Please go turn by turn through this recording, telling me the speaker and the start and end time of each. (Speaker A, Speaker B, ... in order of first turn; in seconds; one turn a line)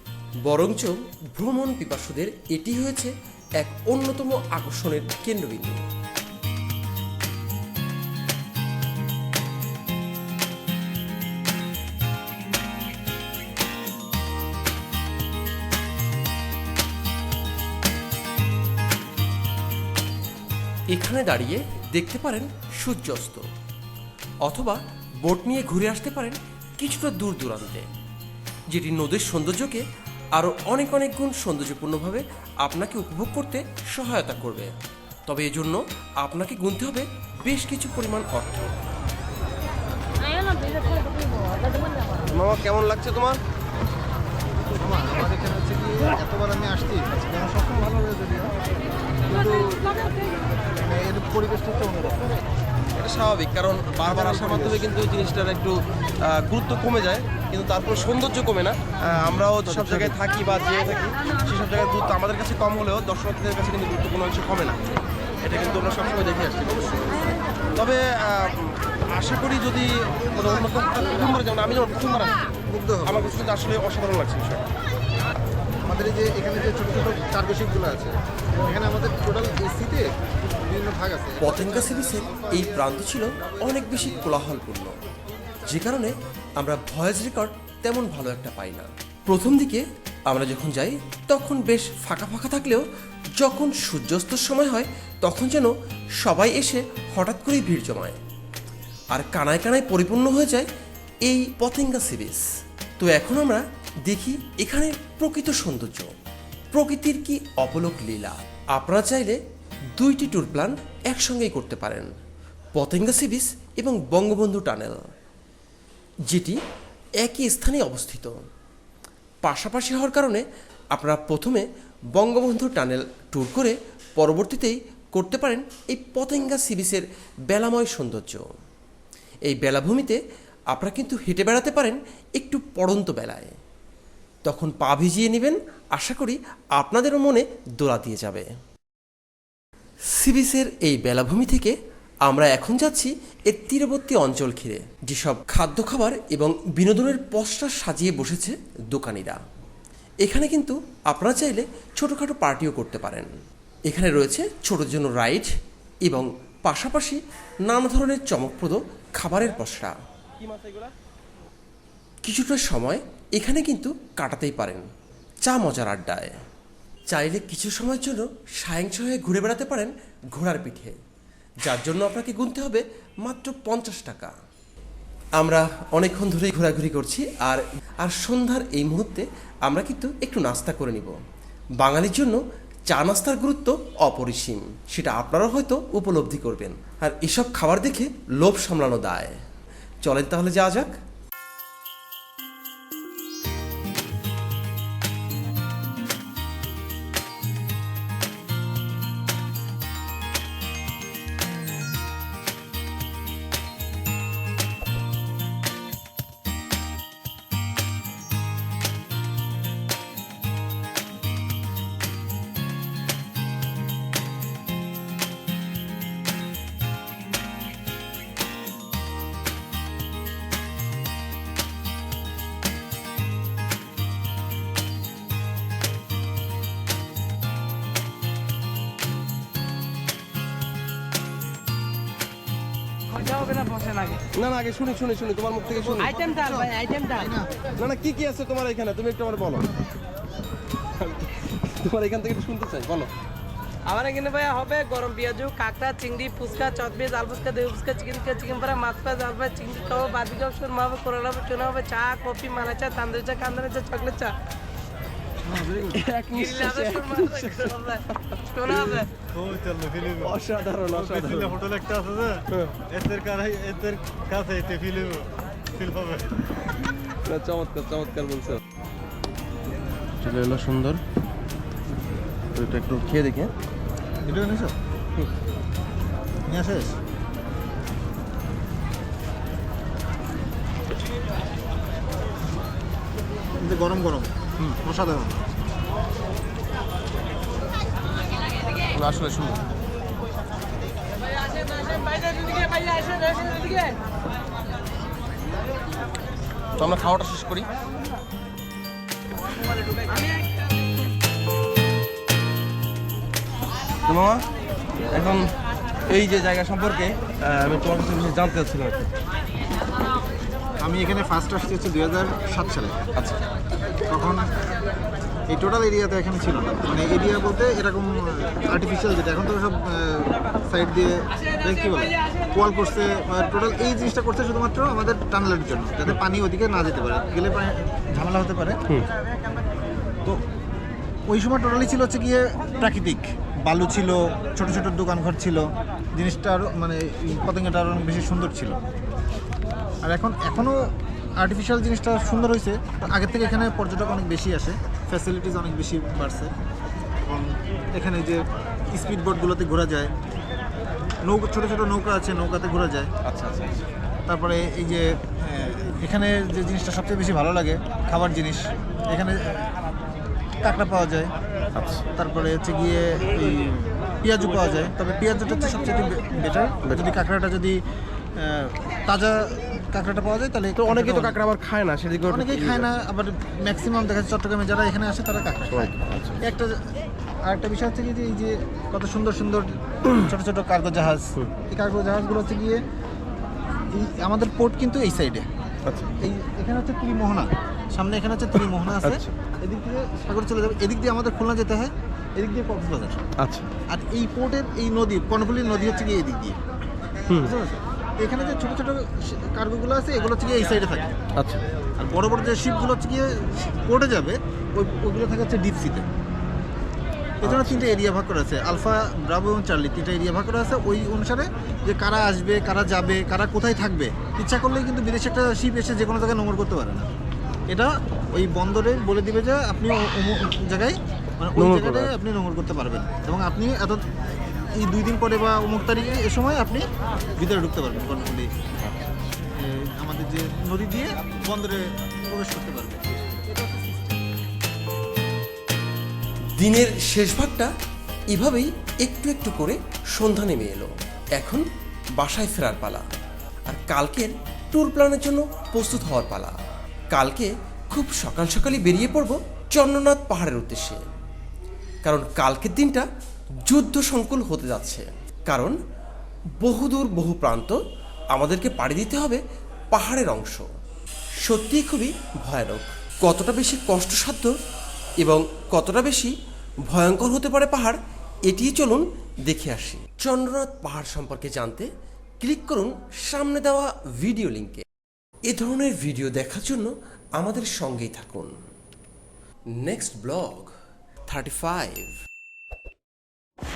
Speaker A: 0.4-5.8
Speaker A: 20.9-23.4
Speaker A: 24.4-27.9
Speaker A: 28.7-34.8
Speaker A: 35.3-38.7
Speaker B: 42.3-43.4
Speaker C: 44.7-48.5
Speaker C: 49.2-50.1
Speaker C: 50.8-52.3
Speaker B: 53.0-64.8
Speaker A: 59.6-60.1
Speaker B: 65.4-72.3
Speaker C: 72.7-73.3
Speaker B: 73.1-74.7
Speaker C: 75.8-80.1
Speaker C: 80.6-81.5
Speaker A: 81.4-84.9
Speaker A: 85.7-92.8
Speaker A: 93.4-98.2
Speaker A: 99.1-100.7
Speaker A: 101.2-102.5
Speaker A: 103.0-106.1
Speaker A: 106.7-109.4
Speaker A: 109.9-112.1
Speaker A: 112.7-115.0
Speaker A: 116.3-116.6
Speaker A: 117.2-118.3
Speaker A: 119.4-120.4
Speaker A: 120.9-121.6
Speaker A: 122.2-128.4
Speaker A: 129.4-130.2
Speaker A: 130.7-133.5
Speaker A: 134.4-138.5
Speaker A: 140.1-141.7
Speaker A: 142.2-149.4
Speaker A: 150.2-153.3
Speaker A: 153.9-155.5
Speaker A: 156.0-159.9
Speaker A: 162.2-164.9
Speaker A: 165.4-166.4
Speaker A: 167.1-171.0
Speaker A: 171.6-174.3
Speaker A: 175.4-181.2
Speaker A: 181.8-189.4
Speaker A: 190.0-190.9
Speaker D: 233.2-234.3
Speaker B: 234.2-236.0
Speaker C: 235.8-237.6
Speaker D: 236.1-237.2
Speaker B: 237.8-239.7
Speaker B: 241.0-243.1
Speaker D: 243.8-254.3
Speaker B: 255.8-258.0
Speaker A: 256.0-257.5
Speaker D: 256.3-259.1
Speaker B: 258.7-266.2
Speaker A: 260.5-261.0
Speaker C: 261.4-262.4
Speaker B: 267.2-268.6
Speaker B: 270.2-271.0
Speaker B: 272.5-273.5
Speaker C: 274.2-274.7
Speaker C: 276.5-277.0
Speaker C: 283.6-285.4
Speaker B: 288.9-289.6
Speaker D: 291.6-293.9
Speaker B: 296.8-297.7
Speaker B: 304.0-304.5
Speaker B: 305.1-305.5
Speaker B: 306.1-309.1
Speaker C: 310.8-313.0
Speaker C: 314.1-314.5
Speaker C: 315.5-328.8
Speaker C: 331.3-335.6
Speaker C: 336.1-338.8
Speaker C: 340.0-340.9
Speaker C: 341.4-346.5
Speaker C: 347.2-348.4
Speaker C: 348.9-350.1
Speaker C: 351.2-353.1
Speaker B: 353.3-353.9
Speaker C: 354.3-359.7
Speaker C: 360.6-361.3
Speaker B: 361.8-362.0
Speaker C: 362.1-367.8
Speaker C: 368.4-371.4
Speaker B: 370.9-372.8
Speaker C: 372.3-382.8
Speaker B: 375.8-376.4
Speaker C: 383.9-385.5
Speaker C: 386.2-393.3
Speaker C: 393.9-396.6
Speaker C: 397.4-401.2
Speaker C: 402.0-406.1
Speaker C: 407.4-417.1
Speaker C: 417.7-424.0
Speaker C: 424.7-426.8
Speaker C: 427.4-428.5
Speaker C: 429.5-434.2
Speaker A: 436.6-437.7
Speaker A: 438.3-441.6
Speaker A: 442.1-443.1
Speaker A: 443.7-446.6
Speaker A: 447.1-451.0
Speaker A: 452.0-453.1
Speaker A: 453.6-455.8
Speaker A: 456.6-457.8
Speaker A: 458.3-459.4
Speaker A: 459.9-460.7
Speaker A: 461.4-464.5
Speaker A: 465.2-466.3
Speaker A: 466.9-471.9
Speaker A: 472.4-474.8
Speaker A: 475.5-478.5
Speaker A: 479.8-480.7
Speaker A: 481.3-482.1